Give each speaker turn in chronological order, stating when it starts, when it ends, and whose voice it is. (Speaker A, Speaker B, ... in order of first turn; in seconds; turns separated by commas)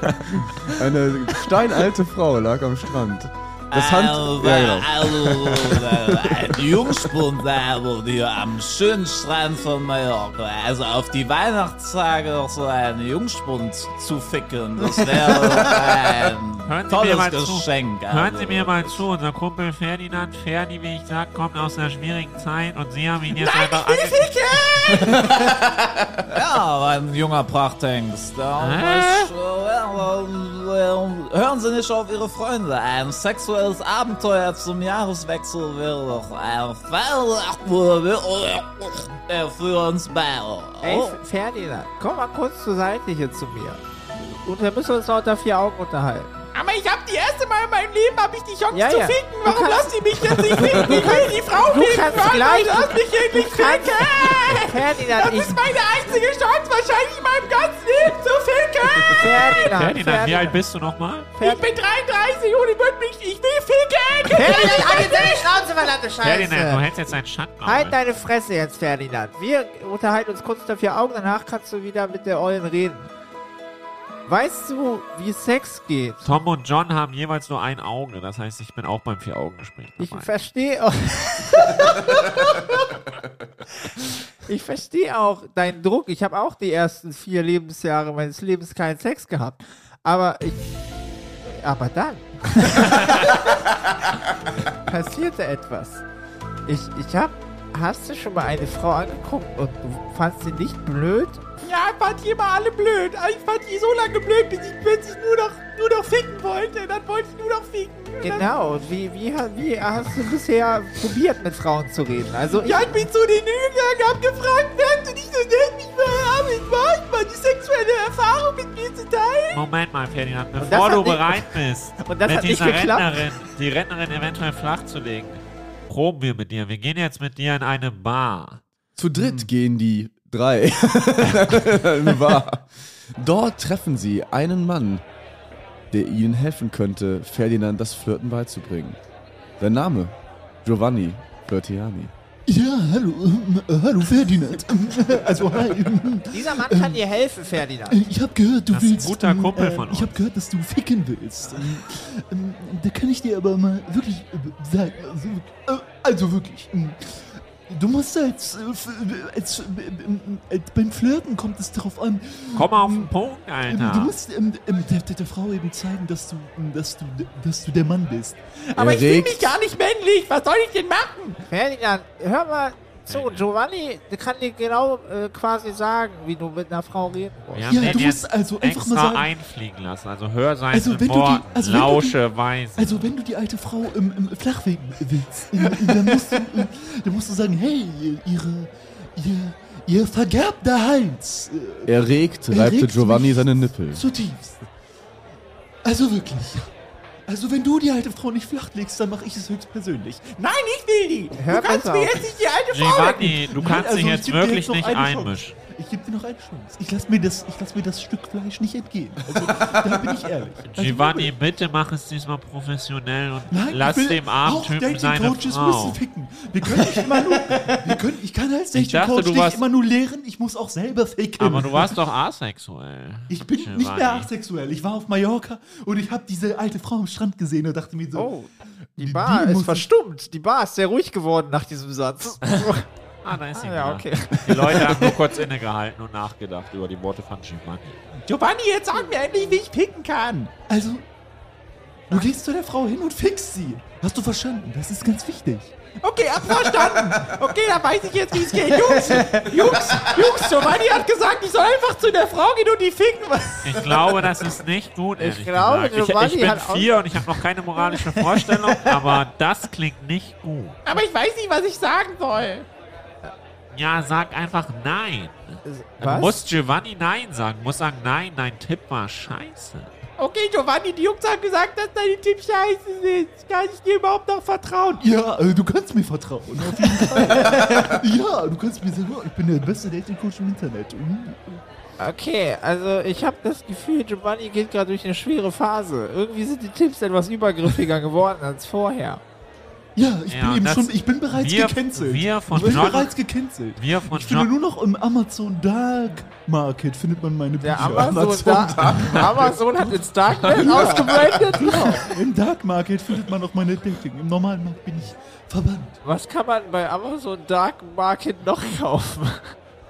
Speaker A: 0.4-6.9, Speaker B: 3.7-19.0, Speaker C: 16.7-24.2, Speaker D: 23.4-25.0, Speaker B: 24.9-41.2, Speaker C: 28.6-29.3, Speaker E: 40.8-43.8, Speaker E: 44.4-46.3, Speaker D: 46.5-59.8, Speaker E: 48.7-55.6, Speaker E: 59.1-60.6, Speaker C: 59.7-61.3, Speaker D: 61.4-65.5, Speaker E: 64.3-66.8, Speaker C: 66.2-68.0, Speaker E: 67.6-73.1, Speaker E: 74.3-76.3, Speaker C: 76.2-80.3, Speaker E: 80.0-82.8, Speaker E: 84.5-90.6, Speaker E: 91.5-93.6, Speaker E: 94.7-96.0, Speaker E: 96.7-101.4, Speaker D: 101.6-108.5, Speaker E: 108.2-113.0, Speaker D: 112.6-119.6, Speaker C: 119.5-128.6, Speaker E: 120.6-121.5, Speaker E: 122.0-123.3, Speaker A: 129.0-135.0, Speaker A: 135.9-139.0, Speaker A: 139.6-142.1, Speaker F: 142.5-146.9, Speaker E: 146.3-148.1, Speaker F: 147.9-163.1, Speaker C: 148.7-150.2, Speaker C: 162.5-164.2, Speaker F: 163.7-168.4, Speaker D: 168.7-171.4, Speaker A: 168.8-169.6, Speaker E: 171.5-178.1, Speaker C: 173.1-173.5, Speaker C: 177.5-183.1, Speaker F: 177.7-179.3, Speaker F: 180.7-182.1, Speaker F: 182.8-191.9, Speaker A: 191.9-194.1, Speaker F: 192.5-193.3, Speaker F: 193.9-194.7, Speaker F: 195.8-196.7, Speaker F: 197.3-200.2, Speaker D: 200.3-203.4, Speaker E: 201.4-202.3, Speaker C: 202.7-205.6, Speaker F: 203.6-211.3, Speaker C: 210.7-216.0, Speaker F: 213.5-222.0, Speaker C: 218.7-219.6, Speaker C: 221.4-224.3, Speaker F: 223.3-228.2, Speaker E: 228.2-232.9, Speaker F: 229.0-229.9, Speaker C: 233.2-238.0, Speaker E: 233.6-235.2, Speaker D: 238.3-240.5, Speaker F: 240.7-241.1, Speaker F: 242.1-245.7, Speaker D: 246.0-253.8, Speaker B: 250.1-250.5, Speaker C: 253.6-260.8, Speaker E: 255.2-256.9, Speaker D: 260.9-262.7, Speaker C: 263.7-269.9, Speaker E: 265.6-266.4, Speaker D: 270.2-275.1, Speaker F: 275.0-281.6, Speaker E: 282.0-289.2, Speaker F: 290.0-306.0, Speaker C: 290.3-294.5, Speaker E: 297.6-302.1, Speaker E: 306.0-309.5